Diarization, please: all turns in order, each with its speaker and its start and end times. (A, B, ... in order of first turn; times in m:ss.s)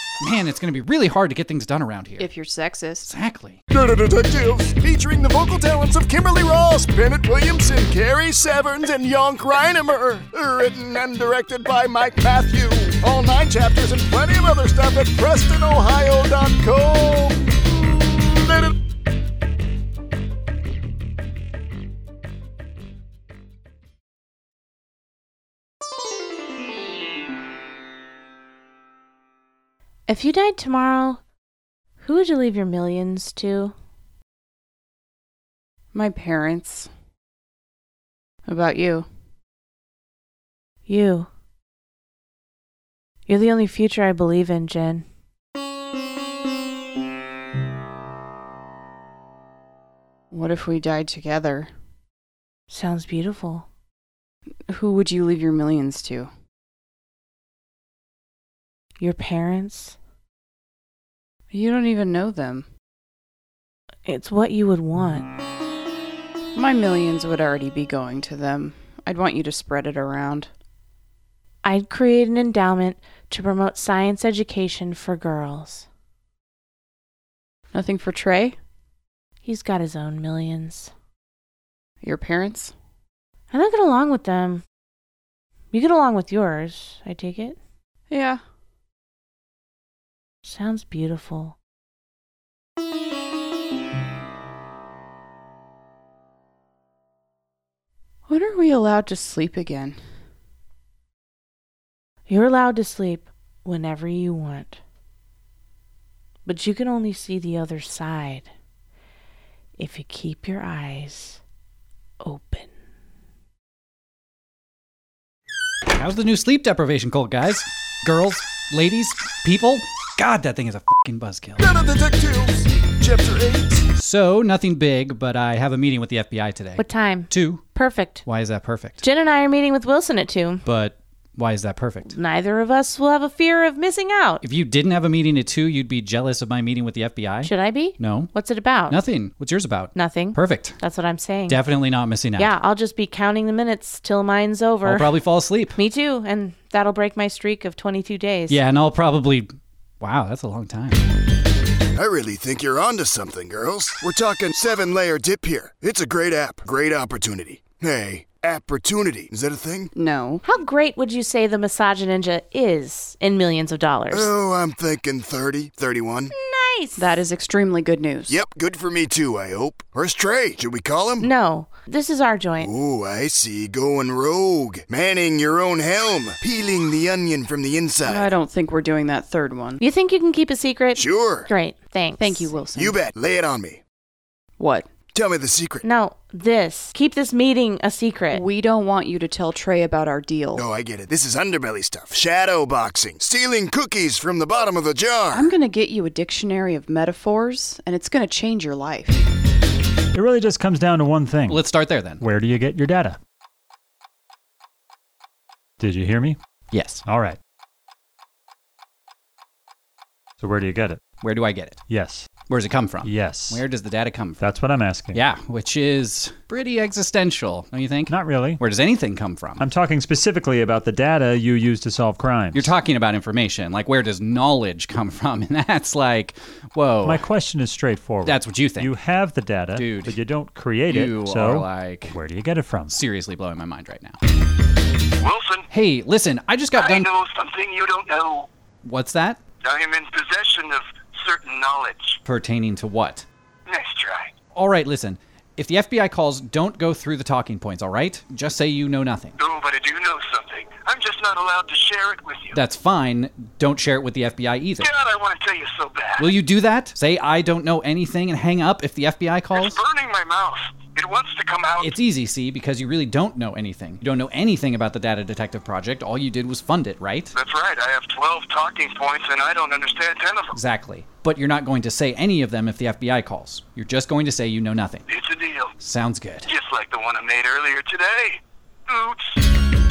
0:00.2-0:02.3 A
0:02.2-0:03.1 B
0:03.0-0:03.6 A
0:03.7-0:18.8 C
0:30.1-0:31.2 D
0:32.0-0:33.7 D
0:35.9-0:36.9 B
0:38.5-0:39.1 B
0:40.9-0:41.3 D
0:43.3-0:45.0 D
0:50.3-0:51.7 B
0:52.7-0:53.7 D
0:54.7-0:56.3 B
0:59.0-1:00.0 D
1:01.5-1:02.6 B
1:04.0-1:05.3 D
1:06.6-1:10.5 B
1:11.6-1:15.9 D
1:17.7-1:18.6 B
1:19.4-1:20.9 D
1:22.0-1:22.7 B
1:23.5-1:24.6 D
1:25.7-1:27.6 D
1:28.1-1:28.4 B
1:30.4-1:31.6 D
1:38.3-1:40.0 B
1:42.3-1:44.8 D
1:46.4-1:48.5 D
1:49.8-1:51.4 D
1:52.2-1:52.7 D
1:55.9-2:01.7 A
2:01.6-2:03.9 C
2:03.9-2:07.6 A
2:06.8-2:08.2 D
2:08.2-2:09.0 A
2:09.0-2:10.6 D
2:10.6-2:12.1 A
2:12.1-2:14.4 D
2:14.4-2:18.3 A
2:17.4-2:19.0 D
2:18.8-2:20.8 A
2:19.9-2:21.6 D
2:21.5-2:22.5 A
2:22.4-2:25.1 D
2:24.8-2:25.8 A
2:25.8-2:28.6 D
2:28.5-2:29.5 A
2:30.0-2:31.0 A
2:32.0-2:39.9 C
2:39.9-2:40.4 B
2:40.4-2:44.3 D
2:44.1-2:46.3 C
2:46.3-2:47.2 D
2:47.0-2:48.4 B
2:48.3-2:51.3 C
2:51.2-2:52.7 D
2:52.6-2:58.3 C
2:58.0-2:59.8 B
2:59.8-3:02.5 D
3:00.9-3:01.5 C
3:02.2-3:03.1 B
3:02.8-3:03.8 C
3:04.6-3:05.0 B
3:05.1-3:05.8 C
3:05.8-3:08.4 D
3:08.3-3:10.6 B
3:10.6-3:15.5 C
3:15.3-3:19.2 B
3:20.1-3:21.6 E
3:21.4-3:22.2 A
3:22.2-3:23.2 E
3:25.8-3:26.4 E
3:26.7-3:27.0 A
3:27.0-3:27.4 E
3:30.4-3:31.0 E
3:31.2-3:31.8 A
3:31.9-3:32.3 E
3:32.4-3:34.5 A
3:33.0-3:33.6 E
3:34.4-3:35.2 E
3:35.1-3:39.6 A
3:38.1-3:38.6 E
3:39.6-3:42.7 E
3:42.5-3:47.3 A
3:47.0-3:53.0 E
3:48.2-3:49.0 A
3:49.7-3:50.2 A
3:50.9-3:52.2 A
3:52.9-3:54.2 A
3:55.7-3:57.1 A
3:56.8-3:57.1 C
3:57.1-3:58.5 F
3:58.8-3:59.4 A
3:59.7-4:00.7 F
4:01.3-4:02.0 F
4:02.2-4:03.2 A
4:03.7-4:04.2 F
4:04.5-4:09.3 A
4:09.4-4:12.5 F
4:12.5-4:14.9 A
4:14.8-4:16.2 F
4:16.2-4:19.8 A
4:19.6-4:19.8 C
4:19.6-4:21.8 F
4:21.8-4:27.3 A
4:27.4-4:30.2 F
4:30.5-4:35.0 A
4:35.1-4:35.5 F
4:35.8-4:36.5 A
4:36.5-4:38.2 F